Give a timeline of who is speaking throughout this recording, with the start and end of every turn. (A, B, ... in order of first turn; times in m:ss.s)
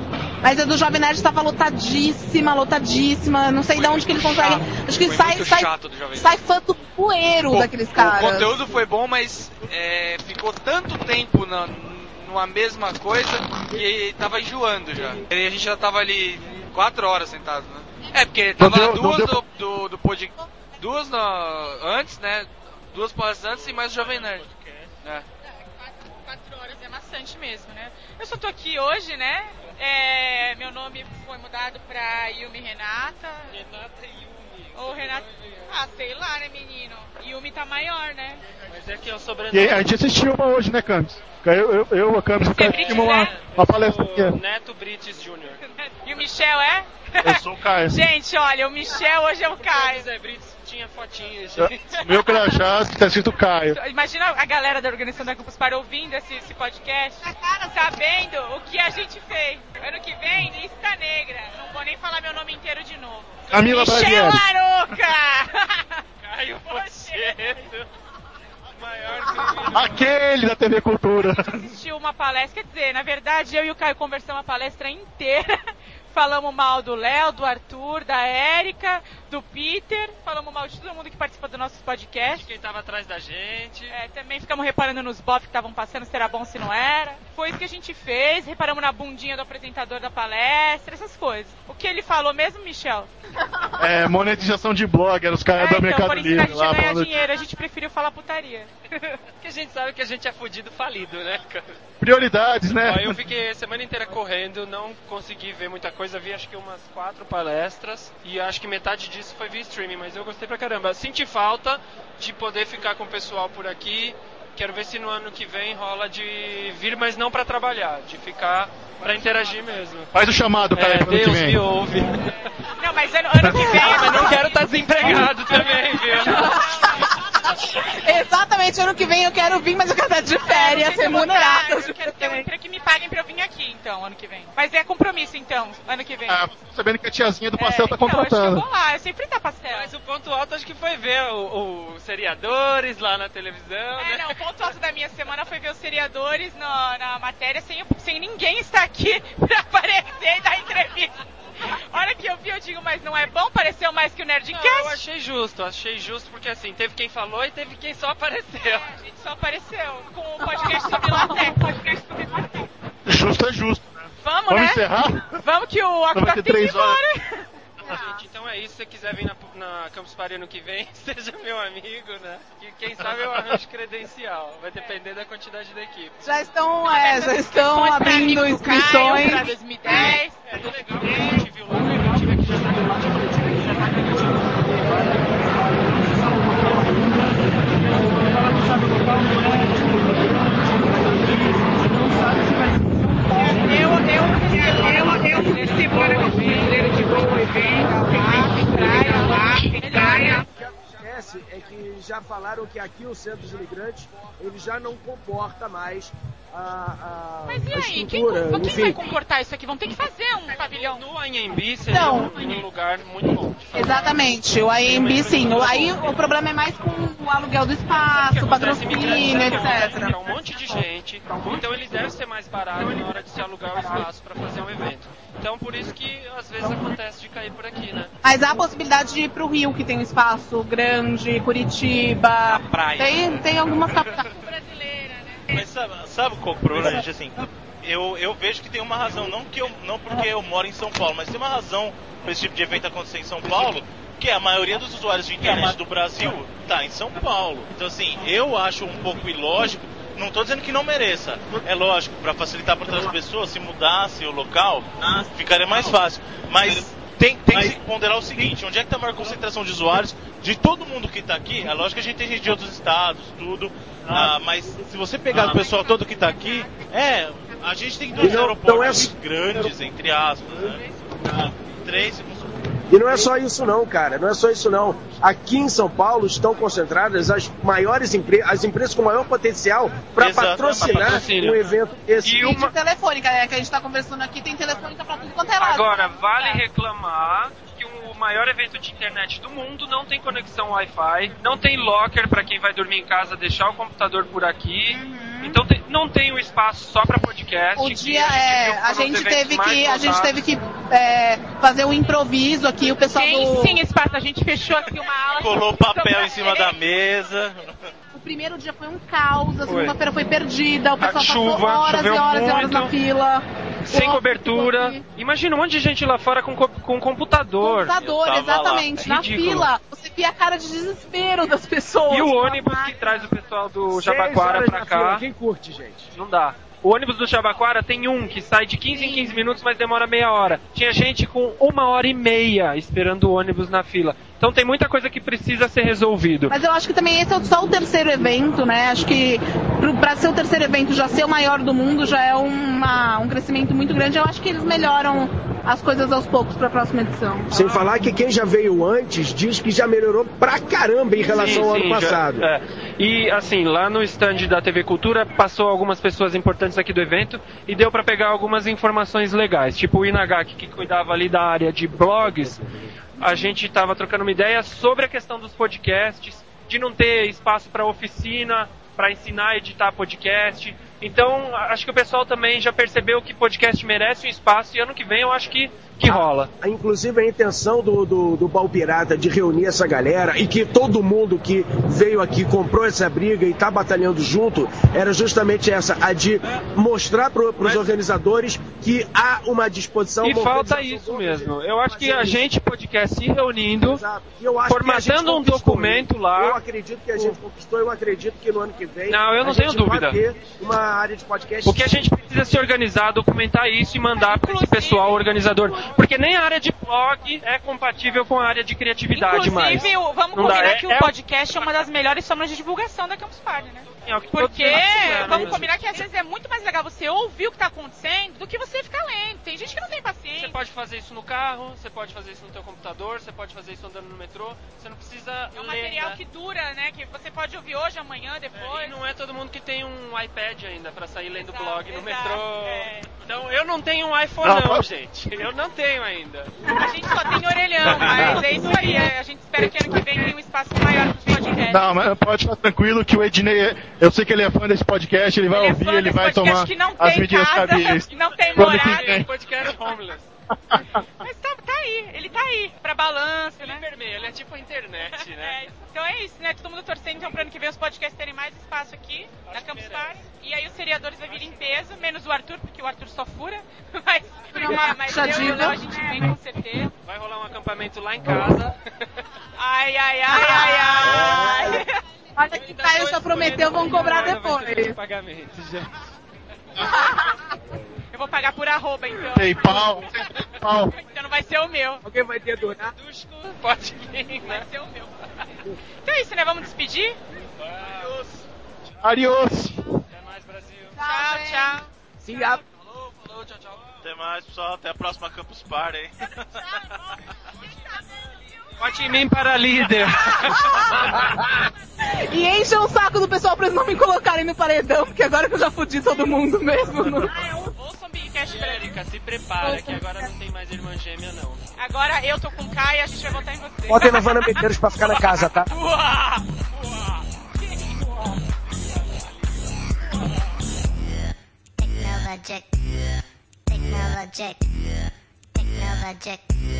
0:00.4-0:08.5 A
0:03.7-0:04.4 B
0:04.4-0:06.4 C
0:07.5-0:24.5 C
0:18.6-0:19.4 D
0:25.9-0:33.5 E
0:33.5-0:35.7 B
0:34.7-0:38.4 E
0:38.7-0:39.9 B
0:39.5-0:44.4 D
0:42.4-0:43.3 E
0:42.7-0:45.6 B
0:45.6-0:50.1 E
0:47.2-0:48.0 D
0:49.6-0:52.2 B
0:51.6-0:53.8 D
0:52.0-0:52.5 E
0:53.7-1:06.0 E
0:57.2-0:57.6 A
1:03.5-1:04.4 D
1:06.2-1:07.9 B
1:06.6-1:07.4 E
1:08.7-1:10.0 B
1:09.7-1:11.6 D
1:11.5-1:15.6 E
1:16.1-1:22.5 E
1:22.3-1:23.9 B
1:23.9-1:33.1 E
1:33.8-1:37.2 D
1:35.6-1:39.1 E
1:39.4-1:41.7 B
1:42.0-1:43.2 D
1:42.8-2:00.1 B
2:00.1-2:01.6 D
2:00.7-2:02.3 B
2:02.8-2:06.4 E
2:03.4-2:03.8 D
2:03.5-2:06.6 B
2:06.1-2:12.5 A
2:10.4-2:16.4 E
2:16.3-2:18.6 D
2:17.6-2:19.9 E
2:19.7-2:24.3 B
2:24.0-2:31.1 E
2:31.7-2:35.0 E
2:34.5-2:38.9 B
2:38.6-2:42.5 E
2:40.6-2:41.5 A
2:43.0-2:45.4 D
2:44.2-2:48.3 E
2:46.1-2:47.0 D
2:47.8-2:56.2 B
2:56.2-3:00.2 A
2:56.8-3:00.4 E
3:00.4-3:04.1 B
3:13.3-3:20.4 E
3:20.4-3:29.0 F
3:27.4-3:31.0 E
3:30.6-3:36.0 B
3:31.9-3:32.4 A
3:33.7-3:40.1 A
3:38.2-3:48.1 B
3:48.2-3:54.3 A
3:54.4-3:55.4 E
3:55.5-4:32.5 G
4:25.7-4:26.5 E
4:28.2-4:29.7 F
4:32.9-4:42.5 F
4:40.2-4:41.3 G
4:40.8-4:41.7 B
4:42.2-4:42.7 B
4:42.3-4:46.0 A
4:45.6-5:00.4 B
4:46.0-4:46.6 E
4:55.0-4:55.6 A
4:57.8-5:03.8 A
5:03.1-5:06.8 E
5:05.4-5:07.8 G
5:08.1-5:15.0 A
5:09.6-5:10.0 B
5:11.0-5:12.9 B
5:13.9-5:18.0 B
5:17.6-5:23.3 A
5:18.0-5:19.0 G
5:19.0-5:19.7 B
5:22.1-5:25.2 B
5:23.9-5:26.1 F
5:26.1-5:36.5 B
5:28.9-5:29.4 A
5:36.5-5:47.5 A
5:47.5-5:52.5 F
5:47.5-5:47.9 B
5:51.2-6:02.6 B
6:03.2-6:16.5 B
6:16.0-6:32.4 F
6:27.6-6:27.9 B
6:30.2-6:34.0 B
6:33.8-6:42.0 F
6:34.6-6:36.6 B
6:39.1-6:40.2 B
6:41.6-6:51.1 B
6:44.2-6:45.9 E
6:49.1-7:00.6 E
6:53.9-6:56.0 B
7:00.4-7:06.2 B
7:05.5-7:09.0 E
7:08.5-7:16.5 B
7:11.4-7:13.1 E
7:14.4-7:14.8 D
7:16.7-7:21.8 E
7:18.1-7:18.4 B
7:18.4-7:19.0 A
7:21.7-7:29.3 D
7:25.5-7:29.2 E
7:28.3-7:30.3 B
7:30.7-7:31.0 D
7:31.2-7:33.8 E
7:33.6-7:35.6 B
7:35.1-7:46.9 E
7:39.5-7:40.2 B
7:41.3-7:41.7 B
7:44.6-7:46.3 A
7:47.0-7:49.2 B
7:49.6-7:51.9 E
7:50.3-7:51.8 A
7:51.1-7:51.4 B
7:52.4-7:55.0 A
7:52.5-7:55.9 B
7:56.8-7:57.0 B
7:56.8-7:57.4 A
7:58.1-8:00.3 E
7:59.3-8:00.9 D
8:00.8-8:02.0 E
8:02.0-8:02.9 F
8:02.8-8:04.6 B
8:04.4-8:05.1 E
8:06.0-8:07.2 E
8:07.6-8:08.4 B
8:09.0-8:09.8 D
8:10.1-8:11.0 B
8:11.0-8:11.8 A
8:11.0-8:11.9 E
8:12.2-8:12.6 F
8:12.7-8:13.9 B
8:14.0-8:16.6 G
8:18.8-8:21.1 B
8:20.3-8:21.1 A
8:22.0-8:27.4 A
8:27.7-8:29.0 E
8:28.5-8:31.6 B
8:29.6-8:30.3 A
8:31.8-8:34.7 E
8:33.9-8:35.7 F
8:35.6-8:37.2 B
8:37.6-8:38.0 E
8:41.8-8:42.7 H
8:43.7-8:44.7 H
8:45.5-8:46.5 H